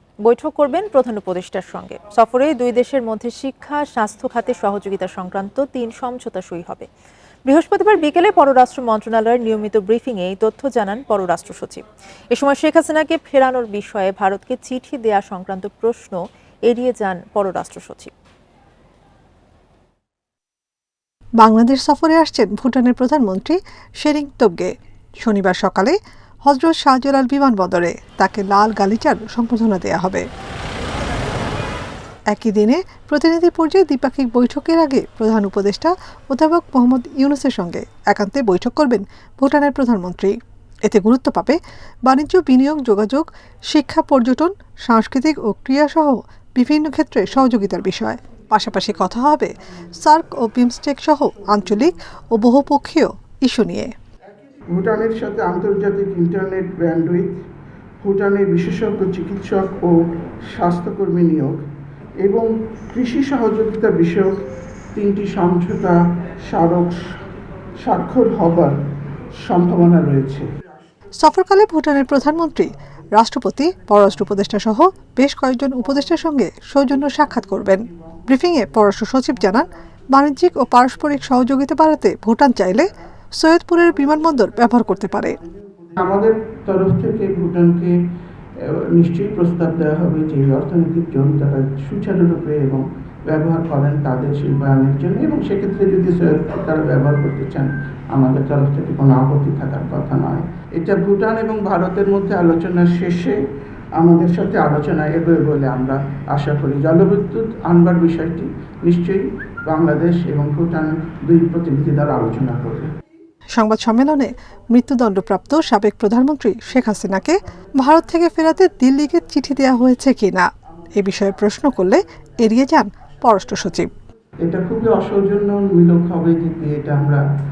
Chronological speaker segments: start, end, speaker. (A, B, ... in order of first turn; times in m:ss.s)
0:00.2-0:06.9 A
0:07.4-0:18.1 A
0:21.4-0:24.7 B
0:25.2-0:30.2 B
0:32.3-0:40.3 B
0:40.8-0:53.9 B
0:54.7-0:57.4 C
0:58.0-0:59.9 C
1:00.5-1:01.6 C
1:02.2-1:04.3 C
1:04.9-1:06.0 C
1:06.5-1:07.0 C
1:07.8-1:08.8 C
1:09.4-1:10.5 C
1:11.2-1:22.9 B
1:23.4-1:25.4 B
1:26.0-1:27.9 C
1:28.6-1:43.4 C
1:44.0-1:52.9 C
1:53.6-2:03.9 B
2:04.4-2:07.2 C